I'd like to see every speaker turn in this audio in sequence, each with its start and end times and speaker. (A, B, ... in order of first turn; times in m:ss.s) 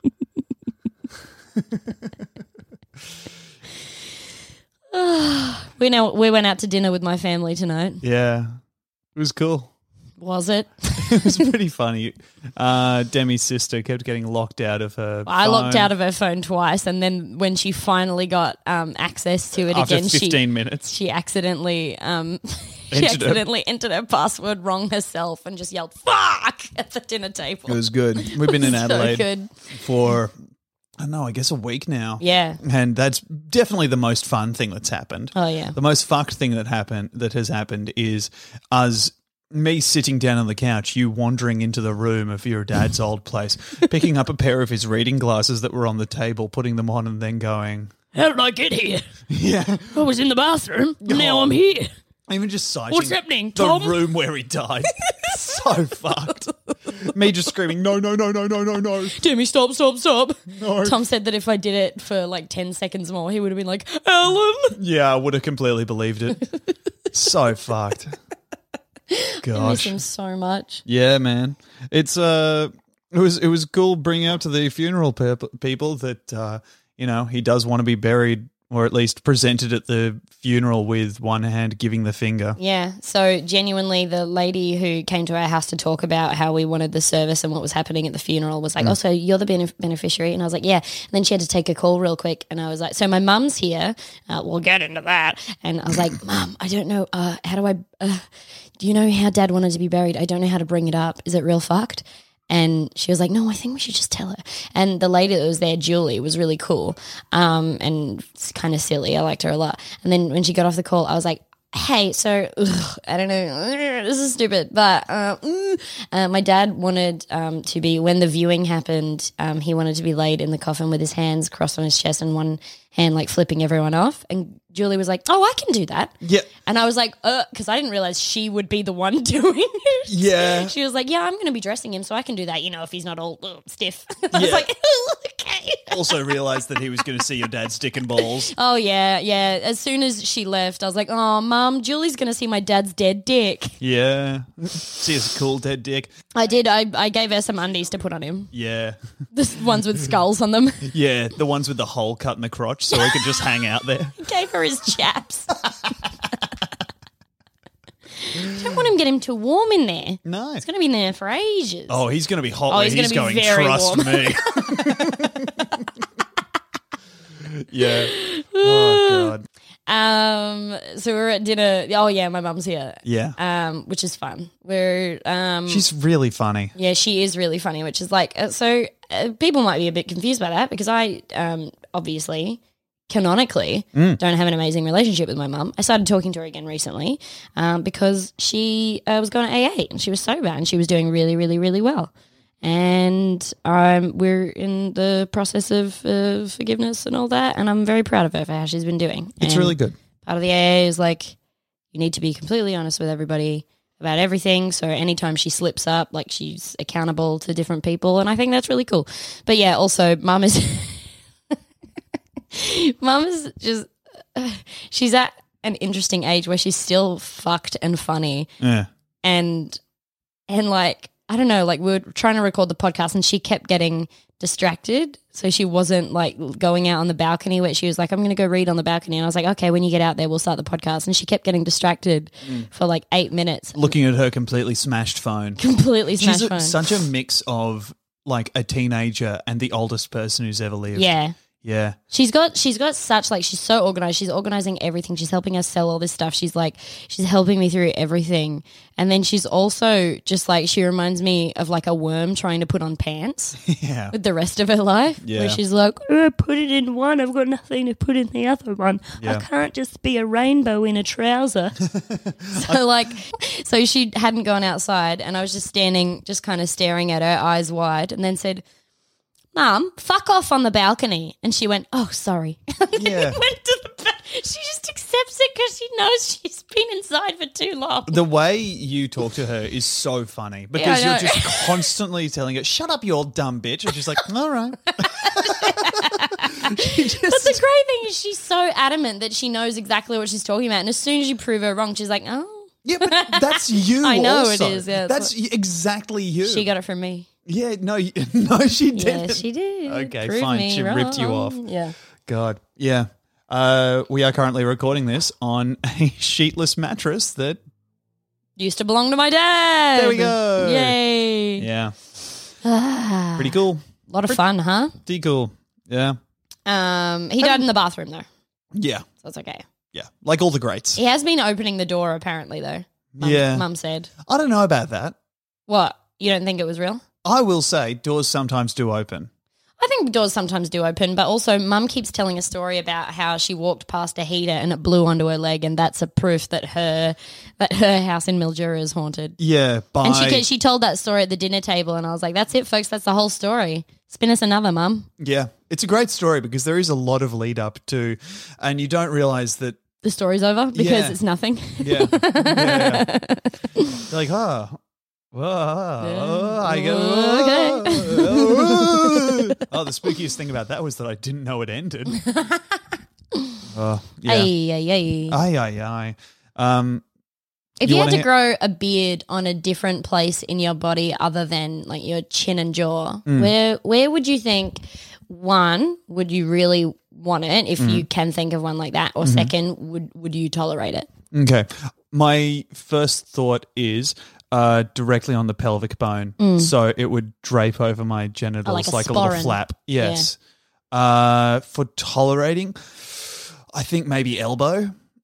0:01.7-0:02.1 A
0:04.9-0:08.0 B
0:08.0-0:08.6 A
0:09.2-0:09.7 A
0:10.2-0:11.5 B
0:11.0-0:15.9 A
0:15.2-0:29.5 B
0:19.7-0:20.9 A
0:22.9-0:23.4 A
0:27.7-0:30.4 A
0:31.0-0:48.0 A
0:32.2-0:32.6 B
0:35.3-0:35.8 B
0:48.2-0:49.0 B
0:49.3-0:50.0 A
0:49.9-0:51.9 B
0:51.0-0:51.6 A
0:52.3-0:59.2 A
0:52.9-0:54.1 B
0:55.0-0:55.6 B
0:56.9-0:57.1 B
0:59.1-1:04.8 B
1:00.5-1:01.0 A
1:04.8-1:06.5 A
1:07.1-1:08.2 A
1:09.1-1:10.8 B
1:09.4-1:10.0 A
1:10.9-1:22.6 A
1:22.6-1:38.2 B
1:38.8-2:16.3 B
2:06.2-2:06.5 A
2:10.1-2:10.7 A
2:14.3-2:14.7 A
2:15.9-2:18.5 A
2:18.2-2:23.8 B
2:23.8-2:26.1 A
2:26.3-2:28.5 B
2:28.5-2:29.0 A
2:29.3-2:30.9 B
2:30.8-2:34.2 A
2:32.9-2:33.2 B
2:34.2-2:35.6 B
2:38.2-2:42.0 B
2:38.5-2:38.8 A
2:40.2-2:40.6 A
2:41.9-2:45.9 A
2:42.7-2:45.3 B
2:47.4-2:49.4 A
2:47.8-2:49.4 B
2:49.9-2:55.8 B
2:53.0-2:53.4 A
2:55.7-2:56.7 A
2:56.8-3:12.1 B
3:03.9-3:04.2 A
3:12.6-3:21.4 B
3:19.4-3:20.0 A
3:21.9-3:31.1 B
3:32.5-3:38.5 B
3:38.6-3:38.9 A
3:39.2-3:39.8 B
3:40.5-3:53.9 B
3:52.4-3:52.7 A
3:53.8-3:55.6 A
3:55.6-3:57.0 B
3:56.2-4:02.0 A
4:00.9-4:01.3 B
4:02.1-4:13.6 B
4:13.6-4:14.2 A
4:14.1-4:21.8 B
4:15.2-4:15.6 A
4:19.2-4:19.4 A
4:21.8-4:22.8 A
4:22.6-4:28.6 B
4:29.5-4:38.2 B
4:33.0-4:33.4 A
4:38.1-4:47.6 A
4:40.8-4:41.9 B
4:45.0-4:55.3 B
4:52.8-4:56.7 A
4:56.4-4:57.3 B
4:57.4-5:01.6 A
4:58.9-5:01.9 B
5:02.3-5:07.6 A
5:08.6-5:11.7 B
5:09.9-5:11.0 A
5:11.6-5:11.9 A
5:12.6-5:14.9 B
5:13.4-5:14.4 A
5:15.0-5:16.2 A
5:16.7-5:18.3 B
5:18.7-5:19.1 A
5:19.2-5:19.6 B
5:19.9-5:21.0 A
5:21.0-5:24.1 B
5:23.1-5:23.7 A
5:24.2-5:25.2 A
5:25.7-5:27.0 B
5:27.2-5:29.3 A
5:29.8-5:39.4 B
5:39.4-5:40.4 A
5:40.0-5:45.1 B
5:45.2-5:49.8 A
5:50.0-5:54.0 B
5:50.7-5:51.2 A
5:51.8-5:53.1 A
5:54.0-5:54.8 A
5:55.3-6:02.2 A
5:56.0-5:59.6 B
6:02.2-6:02.6 B
6:03.7-6:04.5 A
6:04.2-6:05.4 B
6:05.3-6:07.0 A
6:07.8-6:21.1 B
6:07.8-6:08.3 A
6:13.3-6:13.5 A
6:17.8-6:18.1 A
6:19.2-6:19.5 A
6:21.3-6:30.4 A
6:26.4-6:26.7 B
6:28.7-6:30.3 B
6:30.9-6:34.9 A